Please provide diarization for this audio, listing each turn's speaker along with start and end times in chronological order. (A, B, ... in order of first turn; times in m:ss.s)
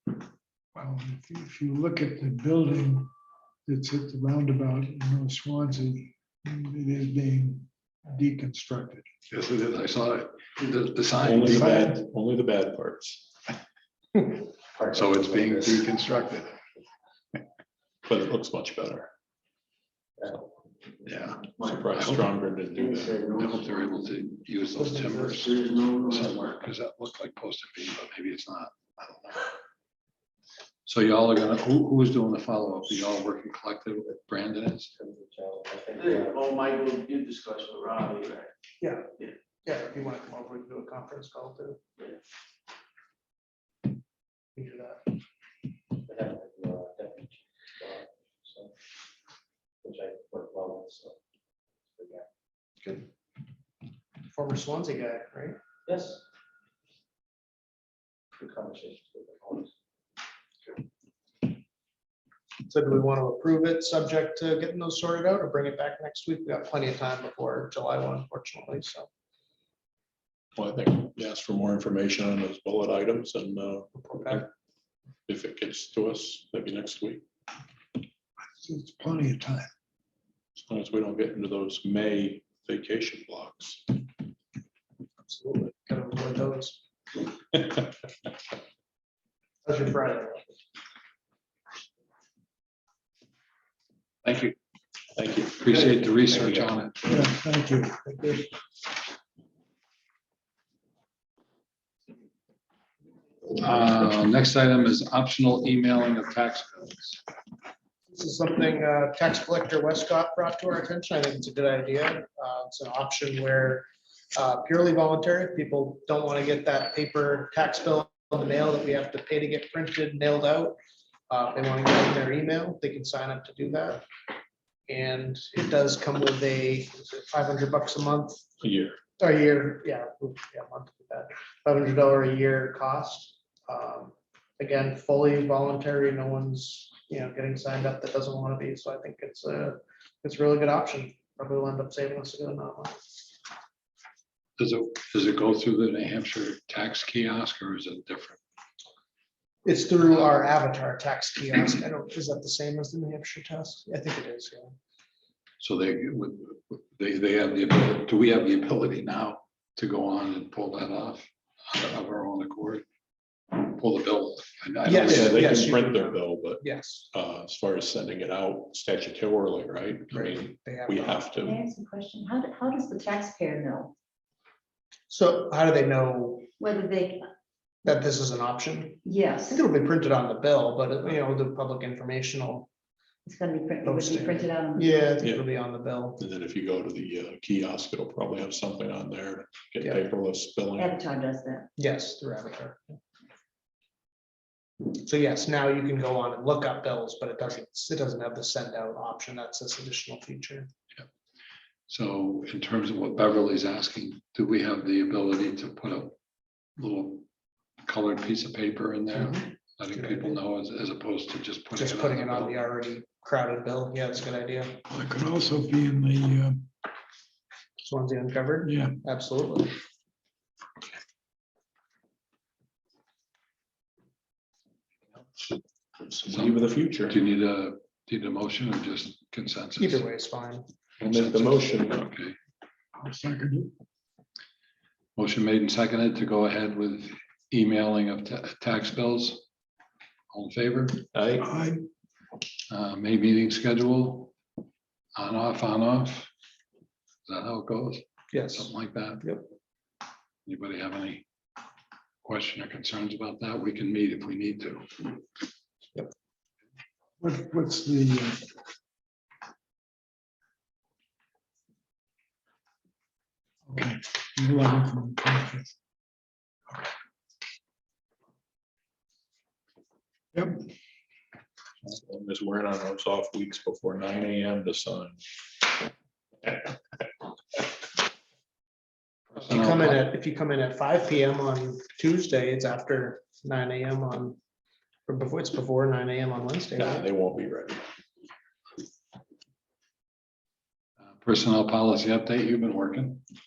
0:00.8-0:03.1 A
0:03.7-0:09.1 A
0:09.3-0:11.9 B
0:11.2-0:13.3 C
0:11.4-0:12.0 A
0:14.8-0:15.8 D
0:14.8-0:16.6 B
0:18.0-0:19.1 C
0:21.0-0:22.3 B
0:21.6-0:23.2 C
0:23.0-0:29.5 B
0:30.8-0:34.9 B
0:35.0-0:36.5 D
0:36.0-0:38.5 E
0:38.8-0:39.1 F
0:39.6-0:41.8 F
0:44.6-0:45.1 F
0:46.0-0:48.7 D
0:49.8-0:51.2 D
0:51.9-0:52.3 D
0:52.8-0:53.1 F
0:54.3-0:55.6 F
0:55.9-0:56.2 D
0:58.4-0:59.7 D
1:02.7-1:09.1 F
1:10.6-1:14.4 C
1:13.9-1:14.5 F
1:15.3-1:17.2 C
1:18.4-1:19.7 A
1:20.6-1:24.0 C
1:25.3-1:26.8 F
1:29.6-1:30.4 F
1:34.2-1:34.6 B
1:35.2-1:36.7 C
1:35.6-1:37.1 B
1:37.1-1:38.0 A
1:38.0-1:38.5 F
1:43.5-1:47.2 B
1:48.1-2:00.8 F
2:01.3-2:04.0 F
2:04.9-2:08.4 F
2:08.6-2:09.0 C
2:09.2-2:23.0 F
2:24.6-2:28.4 B
2:29.6-2:34.8 F
2:35.6-2:42.8 B
2:43.6-2:45.6 B
2:44.8-2:47.0 F
2:45.0-2:51.6 C
2:50.1-2:51.3 F
2:51.4-2:53.9 G
2:55.1-2:56.5 F
2:56.6-2:57.2 G
2:57.8-3:02.7 F
2:59.0-2:59.6 G
3:03.2-3:05.1 G
3:03.8-3:06.2 F
3:05.2-3:05.5 C
3:06.2-3:11.0 C
3:10.8-3:11.7 G
3:11.8-3:13.0 F
3:14.9-3:20.7 F
3:21.9-3:26.2 B
3:26.8-3:27.3 B
3:27.8-3:32.6 B
3:29.1-3:29.4 F
3:30.0-3:30.4 F
3:31.8-3:34.8 F
3:34.9-3:36.7 A
3:37.8-3:39.8 F
3:38.6-3:39.0 A
3:46.0-3:47.2 C
3:46.3-3:50.0 B
3:49.8-3:50.7 F
3:51.0-3:52.0 C
3:51.0-3:52.4 B
3:53.0-3:53.7 A
3:55.2-3:59.4 B
4:00.3-4:01.1 B
4:01.1-4:01.5 C
4:01.4-4:01.8 A
4:02.7-4:04.3 B
4:05.2-4:06.3 B
4:07.3-4:09.3 B
4:08.3-4:09.4 F
4:10.5-4:11.2 B
4:12.2-4:15.1 B
4:17.2-4:18.5 A
4:23.7-4:25.8 A
4:30.3-4:30.6 A
4:31.8-4:35.2 C
4:39.3-4:40.1 B
4:39.4-4:44.4 F
4:45.1-4:47.1 F
4:46.8-4:47.8 C
4:51.1-4:53.2 B